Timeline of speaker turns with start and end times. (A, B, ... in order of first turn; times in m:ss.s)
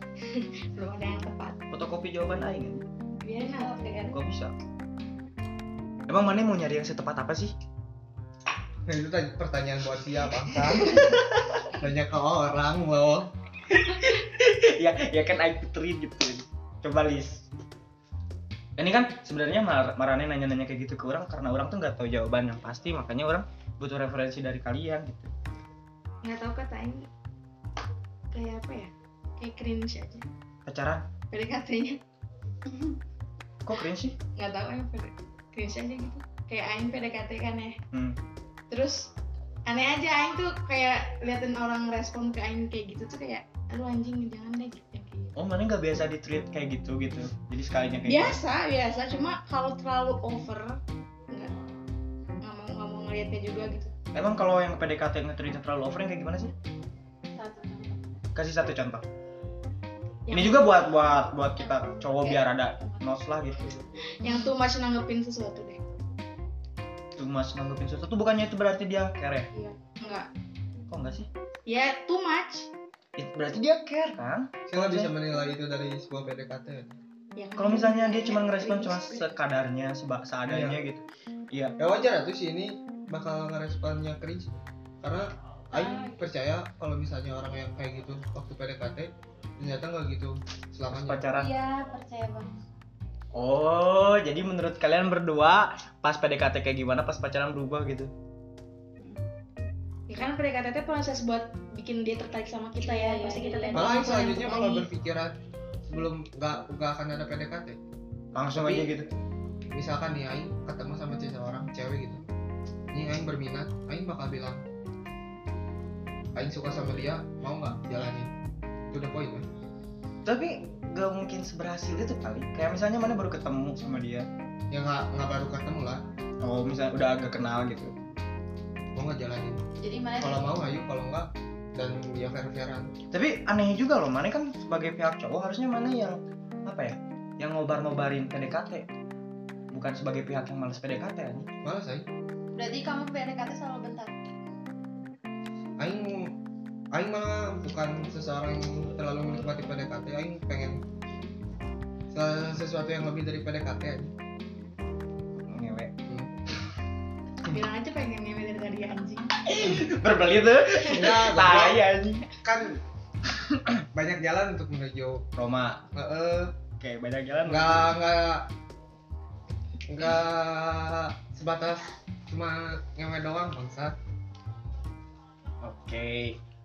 0:00.2-0:01.6 A
0:01.7-0:02.8 B
0:03.2-0:04.0 A
0:03.5-0:04.2 C
0:04.1-0:04.5 B
0:06.1-0:07.5 B
0:08.9-0:11.1 D
0:10.8-0:11.6 B
0:11.8-0:13.3 D
0:13.7-0:17.5 B
0:18.8-0:25.3 B
0:26.2-0:27.1 A
0:28.3-0:30.2 A
0:30.6-0:31.0 B
0:31.3-0:32.0 A
0:33.6-0:34.2 B
0:34.4-0:37.8 A
0:37.9-0:38.2 B
0:38.7-0:39.1 A
0:39.7-0:45.3 A
0:45.4-0:48.4 B
0:48.0-0:50.8 A
0:52.4-0:53.9 A
0:54.1-0:56.5 B
0:57.4-0:58.0 C
0:58.3-0:59.0 B
1:00.3-1:00.8 A
1:00.3-1:03.8 B
1:04.1-1:05.8 A
1:07.2-1:09.5 B
1:09.6-1:10.3 A
1:10.9-1:11.3 B
1:11.6-1:12.7 A
1:13.2-1:15.1 B
1:14.7-1:17.0 D
1:17.4-1:19.3 A
1:17.6-1:21.8 B
1:20.4-1:20.8 D
1:21.8-1:24.5 D
1:25.0-1:31.2 D
1:25.8-1:26.2 C
1:30.9-1:31.5 B
1:31.3-1:32.5 C
1:33.3-1:38.1 B
1:40.1-1:44.9 A
1:42.8-1:44.4 C
1:43.7-1:45.4 D
1:45.9-1:47.8 D
1:48.3-1:49.1 B
1:48.5-1:48.9 D
1:49.7-1:52.2 D
1:52.9-1:54.6 D
1:56.3-1:58.3 D
1:58.9-1:59.4 D
2:00.2-2:04.3 B
2:04.7-2:06.0 D
2:06.4-2:07.9 B
2:08.9-2:09.6 D
2:09.8-2:10.6 C
2:10.2-2:12.9 D
2:13.1-2:18.9 B
2:19.7-2:21.5 B
2:21.6-2:22.0 D
2:22.5-2:24.1 C
2:25.8-2:26.3 D
2:26.9-2:30.8 D
2:32.1-2:34.1 D
2:35.4-2:35.9 B
2:36.1-2:36.3 D
2:37.4-2:39.3 A
2:39.4-2:42.3 B
2:40.8-2:41.8 D
2:42.4-2:42.8 D
2:43.4-2:43.8 B
2:43.9-2:45.2 D
2:45.3-2:45.8 B
2:45.9-2:46.6 D
2:46.8-2:48.0 B
2:47.5-2:48.5 D
2:49.9-2:54.0 D
2:55.6-2:56.4 B